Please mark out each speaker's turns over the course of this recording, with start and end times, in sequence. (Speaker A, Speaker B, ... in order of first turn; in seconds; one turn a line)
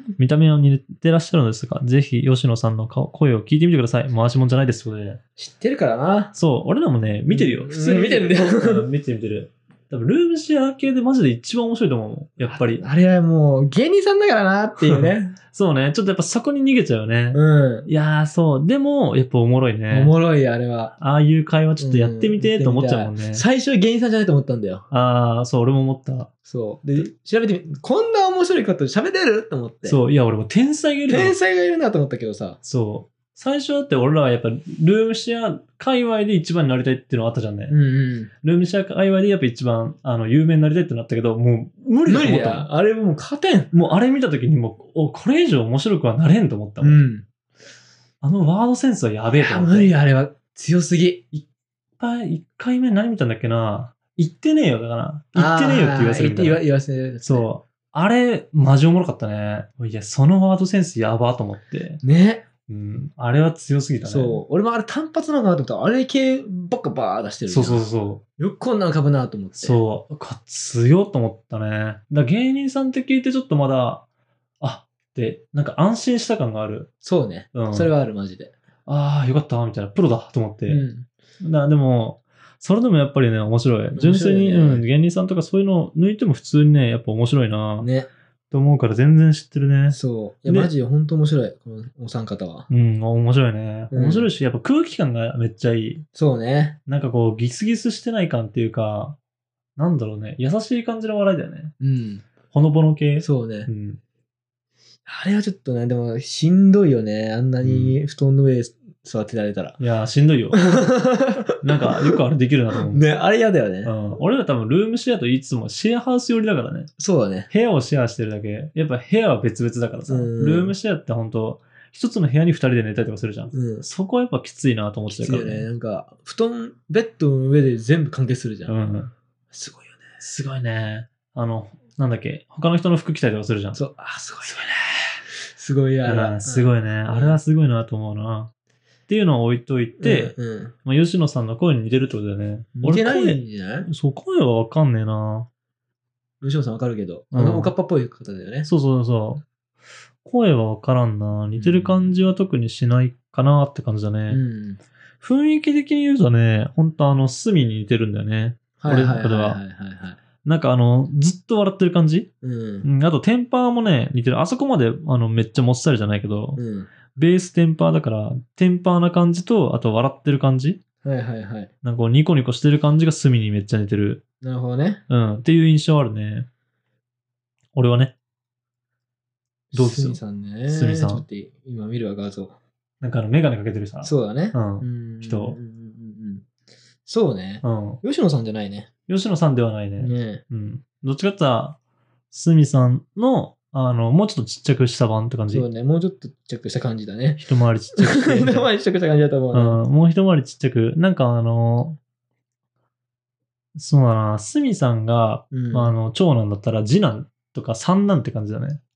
Speaker A: 0.2-5.2
Speaker B: 5.4-6.3
Speaker A: 6.3-12.8
Speaker B: 7.3-8.8
Speaker B: 12.5-15.4
Speaker A: 14.8-20.1
Speaker B: 17.3-17.9
Speaker B: 19.9-21.0
Speaker A: 21.0-23.4
Speaker B: 21.8-24.9
Speaker A: 24.9-26.3
Speaker B: 26.5-30.0
Speaker A: 29.8-31.3
Speaker B: 31.1-32.6
Speaker A: 32.6-37.8
Speaker B: 37.7-38.3
Speaker A: 38.4-42.7
Speaker B: 42.1-43.7
Speaker A: 43.7-47.0
Speaker B: 46.8-47.2
Speaker A: 48.2-49.9
Speaker B: 49.4-51.3
Speaker A: 52.0-56.6
Speaker B: 55.4-57.5
Speaker A: 57.2-62.0
Speaker B: 62.0-62.5
Speaker A: 62.7-64.4
Speaker B: 64.0-67.9
Speaker A: 67.5-68.2
Speaker B: 68.4-69.8
Speaker A: 69.5-74.0
Speaker A: 74.6-76.9
Speaker B: 77.0-78.5
Speaker A: 77.5-77.9
Speaker A: 78.8-80.8
Speaker B: 80.7-81.1
Speaker A: 81.4-87.9
Speaker B: 83.9-84.8
Speaker B: 87.8-88.1
Speaker A: 88.5-90.7
Speaker B: 89.9-92.7
Speaker A: 92.7-96.0
Speaker B: 93.9-94.3
Speaker B: 96.2-96.8
Speaker A: 96.9-99.2
Speaker A: 99.8-101.7
Speaker B: 101.8-102.2
Speaker A: 102.5-104.0
Speaker B: 103.2-103.7
Speaker B: 105.0-109.8
Speaker A: 107.6-108.0
Speaker A: 109.8-110.7
Speaker B: 110.5-112.2
Speaker A: 111.6-113.0
Speaker B: 112.8-113.9
Speaker A: 113.8-116.9
Speaker B: 117.0-117.5
Speaker A: 117.5-125.7
Speaker B: 120.1-120.7
Speaker B: 123.5-123.8
Speaker B: 125.1-128.7
Speaker A: 128.7-129.1
Speaker B: 129.5-130.0
Speaker A: 130.2-133.8
Speaker B: 133.7-134.6
Speaker A: 134.4-135.2
Speaker B: 135.4-137.4
Speaker A: 136.0-138.5
Speaker A: 139.1-140.3
Speaker B: 140.0-140.7
Speaker A: 140.8-145.5
Speaker B: 142.8-143.9
Speaker B: 146.4-148.7
Speaker A: 147.3-147.7
Speaker A: 148.7-149.4
Speaker A: 150.2-154.4
Speaker B: 151.5-152.1
Speaker B: 154.3-154.8
Speaker A: 155.2-159.6
Speaker B: 158.8-160.2
Speaker A: 160.4-162.3
Speaker B: 162.4-162.8
Speaker A: 162.8-166.6
Speaker B: 166.6-166.9
Speaker A: 167.1-170.8
Speaker B: 171.0-171.7
Speaker A: 171.8-174.2
Speaker B: 174.4-175.0
Speaker A: 175.1-176.5
Speaker A: 177.7-178.1
Speaker B: 179.7-182.5
Speaker A: 179.7-181.2
Speaker A: 183.0-185.6
Speaker B: 184.0-186.5
Speaker B: 187.1-188.9
Speaker A: 187.6-188.0
Speaker A: 189.1-191.8
Speaker B: 190.0-190.4
Speaker A: 192.3-195.7
Speaker B: 195.5-197.4
Speaker A: 197.4-198.7
Speaker B: 198.0-199.8
Speaker A: 199.5-202.0
Speaker A: 203.7-208.8
Speaker B: 205.5-205.9